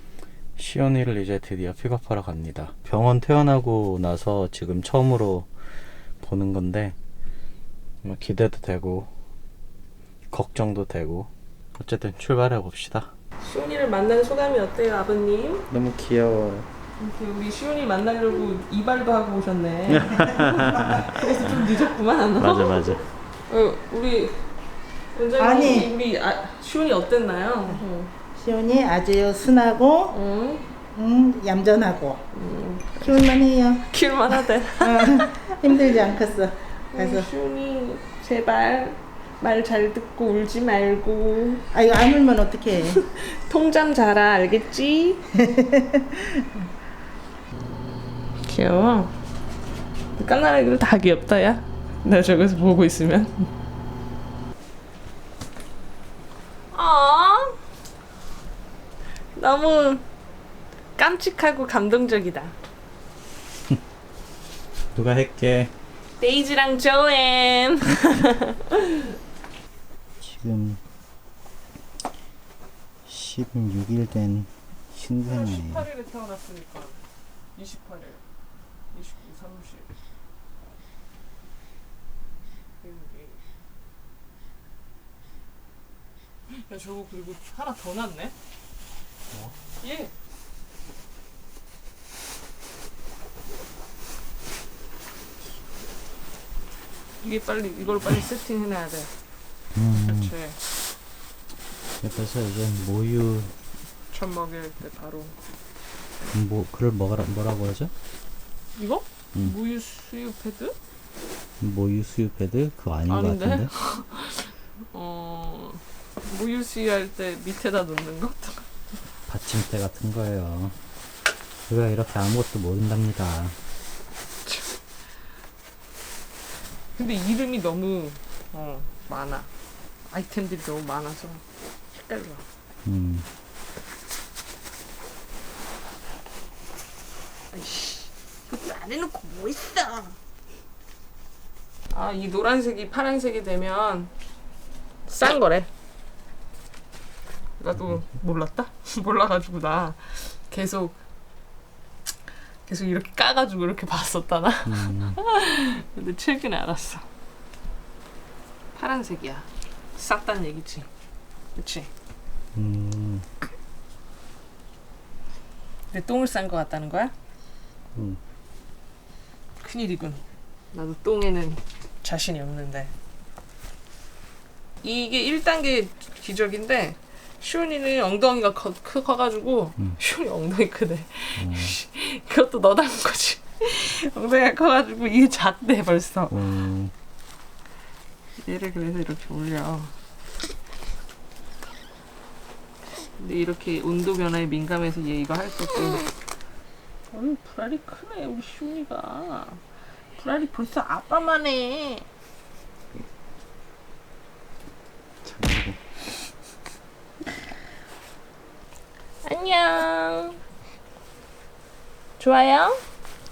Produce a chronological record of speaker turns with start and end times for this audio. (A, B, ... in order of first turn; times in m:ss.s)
0:00.6-0:05.5 A
0:06.2-0:07.0 A
0:08.0-0:09.1 A
0:10.3-0:13.1 A
0:13.4-0:15.7 B
0:15.7-0:16.7 A
0:17.0-0:24.4 B
0:20.1-0:20.7 C
0:20.2-0:21.0 A
0:22.4-0:23.0 A
0:25.1-0:28.1 B
0:25.4-0:25.9 C
0:28.4-0:30.2 C
0:30.1-0:30.6 B
0:30.9-0:32.2 C
0:32.3-0:33.3 B
0:32.9-0:33.8 C
0:33.9-0:36.0 B
0:34.8-0:37.3 C
0:36.9-0:41.6 B
0:41.7-0:43.0 C
0:42.8-0:45.2 B
0:45.3-0:46.4 C
0:48.4-0:49.1 B
0:50.2-0:53.5 B
0:56.7-0:57.6 B
0:59.3-1:00.0 B
1:01.0-1:02.5 B
1:05.0-1:05.7 A
1:06.2-1:08.8 B
1:10.2-1:10.8 A
1:13.0-1:15.8 A
1:15.2-1:17.0 B
1:17.5-1:18.2 B
1:18.9-1:19.9 B
1:22.8-1:23.4 B
1:26.5-1:28.4 B
1:29.8-1:30.1 B
1:37.2-1:39.1 B
1:39.7-1:40.3 A
1:40.0-1:40.6 B
1:42.0-1:43.5 A
1:44.1-1:45.4 B
1:46.3-1:47.9 A
1:48.8-1:50.8 B
1:51.6-1:53.7 A
1:53.1-1:58.7 B
1:59.3-2:00.8 A
2:01.7-2:03.6 A
2:04.4-2:04.8 B
2:07.0-2:09.5 B
2:10.1-2:12.4 B
2:12.8-2:13.3 A
2:17.5-2:20.2 B
2:21.9-2:24.1 B
2:25.1-2:25.7 B
2:27.6-2:31.0 B
2:32.6-2:37.1 B
2:34.6-2:35.2 A
2:38.7-2:40.9 B
2:41.5-2:41.9 B
2:42.6-2:43.2 A
2:45.9-2:47.1 B
2:49.6-2:50.2 B
2:50.7-2:52.9 B
2:54.8-3:06.6 B
3:01.4-3:01.7 A
3:06.3-3:06.9 A
3:08.4-3:09.9 B
3:13.2-3:16.1 B
3:17.1-3:19.6 B
3:20.2-3:22.0 B
3:25.2-3:25.8 A
3:29.2-3:30.4 B
3:32.2-3:32.8 B